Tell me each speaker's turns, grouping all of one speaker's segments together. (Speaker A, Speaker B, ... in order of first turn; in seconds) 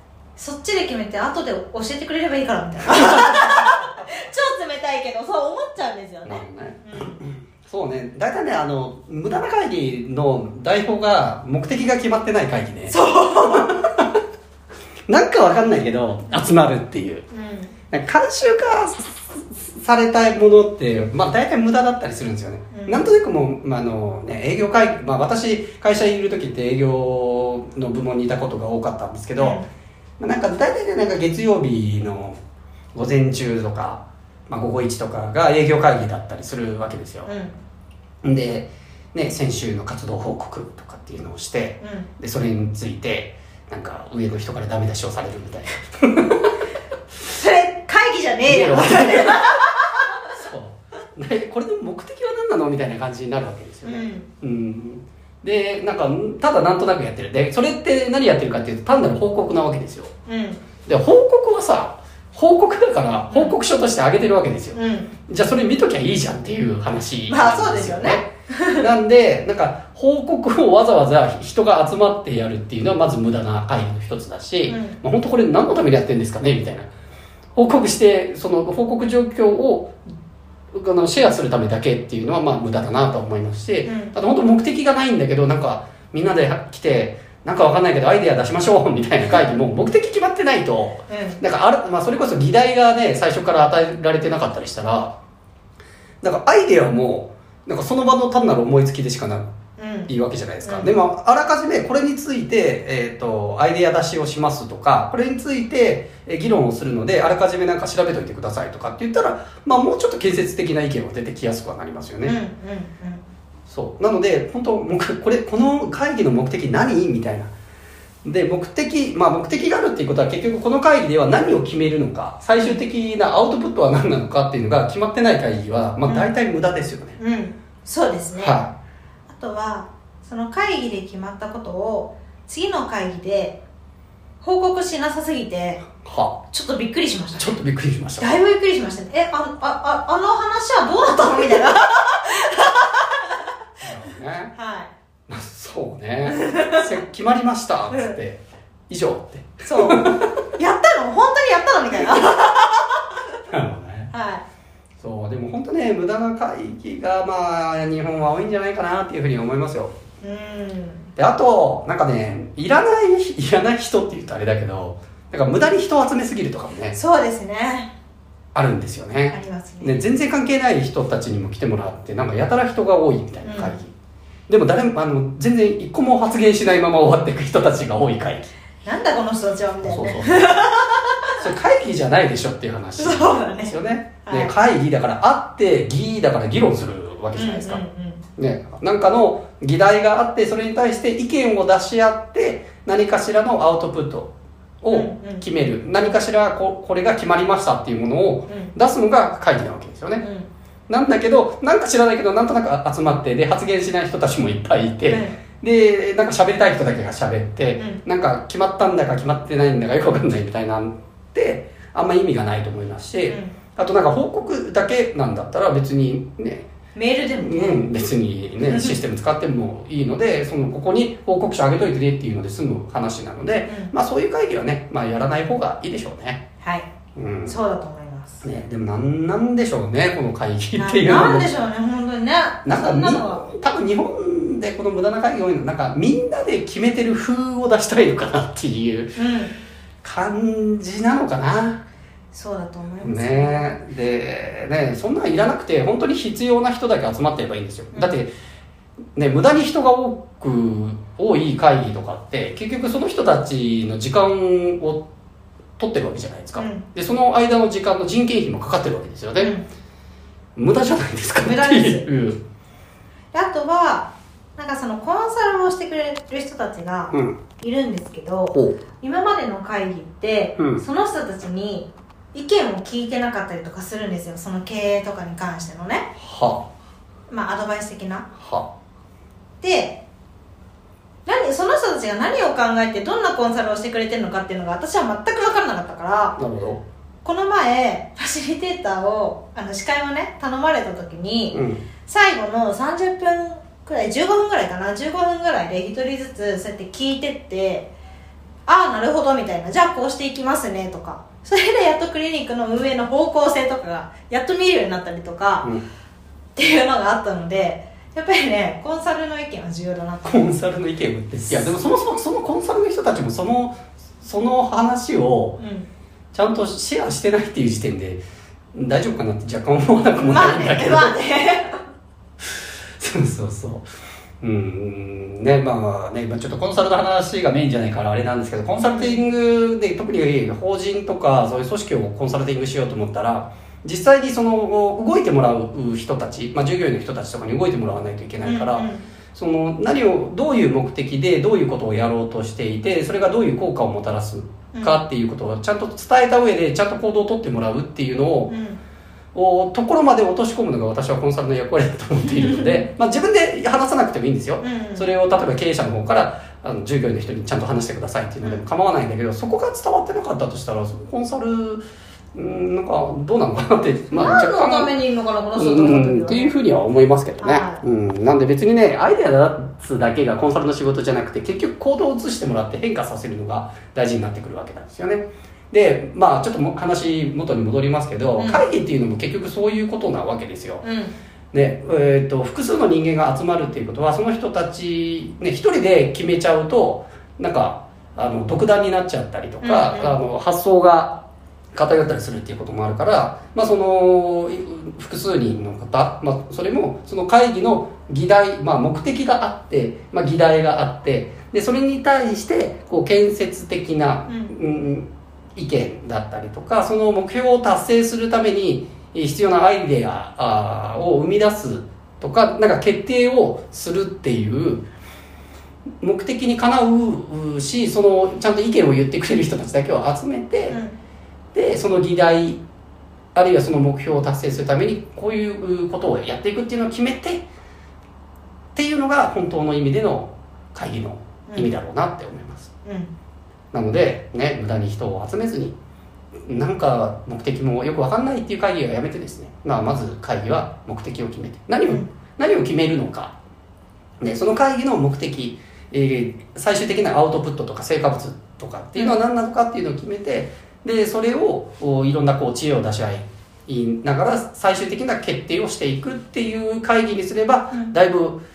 Speaker A: 0.4-7.2, 12.9-13.7, 17.3-17.7, 22.7-23.1, 29.4-29.7, 37.3-37.6, 41.8-42.1, 47.3-50.2, 53.8-54.3, 60.3-60.6, 63.3-63.5, 64.7-65.1, 67.3-68.9, 74.7-75.0, 83.9-84.2, 91.1-91.4, 99.8-100.1, 100.6-101.0, 112.2-113.2, 126.0-126.4, 127.2-128.6, 129.3-133.6, 134.4-135.8, 136.5-137.6, 138.2-143.4, 144.6-144.9, 146.3-147.0, 147.9-148.2, 149.6-152.9, 154.1-154.4, 160.2-161.1, 166.9-167.9, 169.3-170.0, 173.4-173.8, 178.8-181.5, 183.0-184.5, 187.3-188.2, 194.9-195.4, 200.2-200.5, 205.1-205.4, 213.3-213.6, 216.9-217.8, 218.7-219.0, 226.6-226.9, 227.5-228.4, 230.8-233.5, 239.2-239.5, 242.3-243.8, 247.9-248.2, 256.6-256.8, 259.4-259.6, 261.4-262.1, 263.3-276.1, 277.3-278.3, 279.6-280.0, 281.3-286.4, 287.2-297.9, 298.7-305.7, 306.6-310.5, 315.6-315.9, 320.2-321.8, 328.8-329.2, 338.4-339.1, 344.7-345.0, 348.5-348.8, 352.2-352.9, 354.6-355.1, 364.1-366.6, 367.4-367.8, 378.4-378.6, 380.8-381.1, 389.6-390.2, 404.3-404.5, 420.7-420.9, 432.8-433.1
Speaker B: 6.2-12.9, 13.5-14.1, 15.1-17.3, 17.9-29.6, 30.2-32.4, 33.0-37.3, 38.2-46.5, 48.5-49.6, 50.2-60.1, 60.9-68.2, 68.8-76.9, 77.5-80.0, 80.7-95.2, 96.2-99.4, 100.1-112.4, 113.7-117.5, 118.2-127.2, 128.3-128.7, 136.0-136.4, 137.4-138.4, 143.8-144.5, 145.3-150.3, 153.5-154.1, 155.0-159.9, 161.2-167.0, 168.6-173.9, 174.5-178.5, 179.8-180.6, 181.4-187.8, 188.4-194.3, 194.8-200.2, 200.9-216.7, 217.3-226.4, 227.2-227.6, 228.4-231.5, 232.7-239.2, 240.0-241.8, 243.0-248.3, 249.2-255.1, 255.8-259.5, 260.6-262.4, 267.1-267.4, 268.5-268.8, 270.6-270.8, 276.2-276.7, 278.4-278.7, 286.4-286.8, 291.5-291.9, 310.2-315.6, 316.3-318.2, 318.7-321.2, 323.0-323.9, 324.4-348.5, 349.3-361.8, 362.4-364.9, 365.6-380.9, 381.5-414.9, 416.0-420.8, 421.5-422.6, 423.4-427.4, 428.8-432.7, 433.7-435.8, 436.5-443.3, 444.2-458.4